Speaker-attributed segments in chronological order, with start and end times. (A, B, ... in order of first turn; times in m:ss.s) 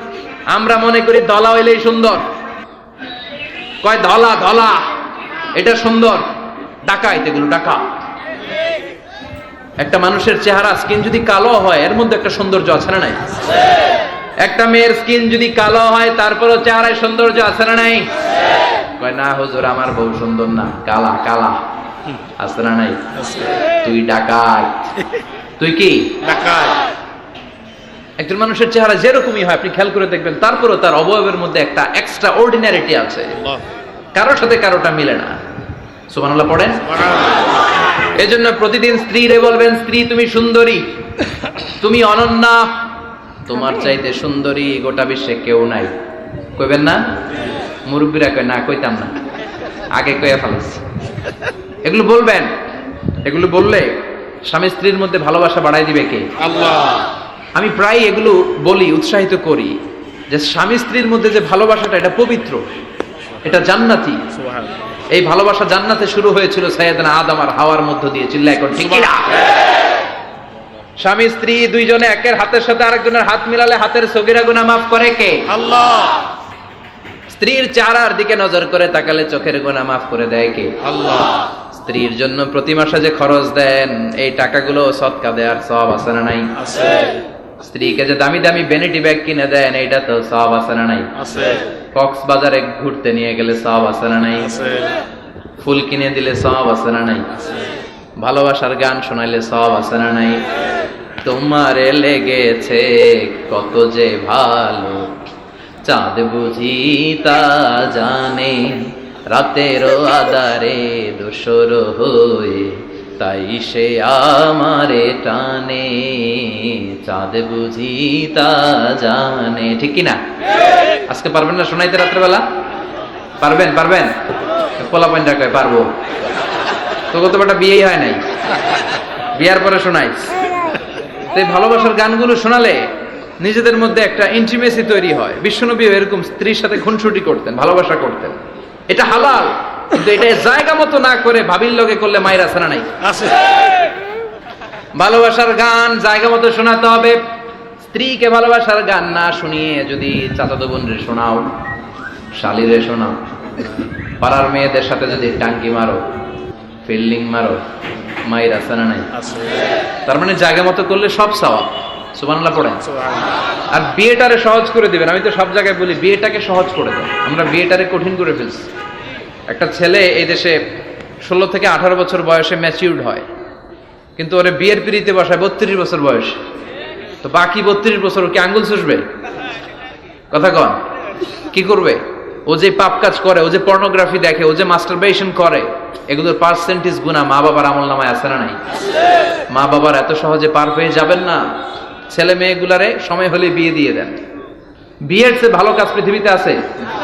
0:00.5-0:02.2 A
0:03.8-0:04.9 A
0:05.5-0:06.3 A
0:06.8-0:07.8 A
0:09.8-0:13.3 A
0:14.4-0:18.1 A
0:19.0-0:21.6 A
0:22.4-0:23.1 A
0:23.8-0:24.9 A
0:25.6-0:26.2 A
0:26.3-0:26.8 B
0:28.2-0:33.5 A
0:34.1-0:35.4 A
0:36.1-0:36.9 A
0:38.2-0:40.8 A
0:41.8-0:42.7 A
0:43.4-0:45.9 A
0:46.6-0:47.0 A
0:47.8-0:49.2 A
0:49.9-0:50.8 A
0:51.8-0:52.5 A
0:53.2-0:56.4 A
0:56.5-0:57.0 B
0:57.5-0:59.8 A
1:00.3-1:02.7 A
1:03.4-1:04.2 A
1:05.1-1:09.4 A
1:11.0-1:15.5 A
1:15.6-1:16.1 B
1:17.3-1:20.8 A
1:20.9-1:21.5 B
1:21.7-1:26.6 A
1:26.6-1:27.2 B
1:27.6-1:31.1 A
1:31.2-1:31.6 B
1:31.9-1:34.6 A
1:34.6-1:34.9 B
1:35.6-1:37.3 A
1:38.2-1:40.4 A
1:41.2-1:45.2 A
1:45.8-2:00.2 A
2:01.1-2:02.4 A
2:03.4-2:04.1 A
2:04.8-2:05.9 A
2:07.1-2:08.2 A
2:09.3-2:10.3 A
2:11.3-2:12.8 A
2:13.4-2:23.0 A
2:24.9-2:27.2 A
2:27.9-2:31.5 A
2:32.3-2:33.2 A
2:34.2-2:36.0 A
2:36.8-2:37.6 A
2:38.3-2:39.1 A
2:39.2-2:39.6 B
2:40.0-2:42.9 A
2:43.7-2:48.6 A
2:49.5-2:50.6 A
2:51.2-2:53.2 A
2:54.2-2:56.4 A
2:57.2-2:59.0 A
3:00.3-3:00.8 A
3:01.5-3:08.6 A
3:09.5-3:11.4 A
3:12.1-3:14.2 A
3:15.0-3:16.6 A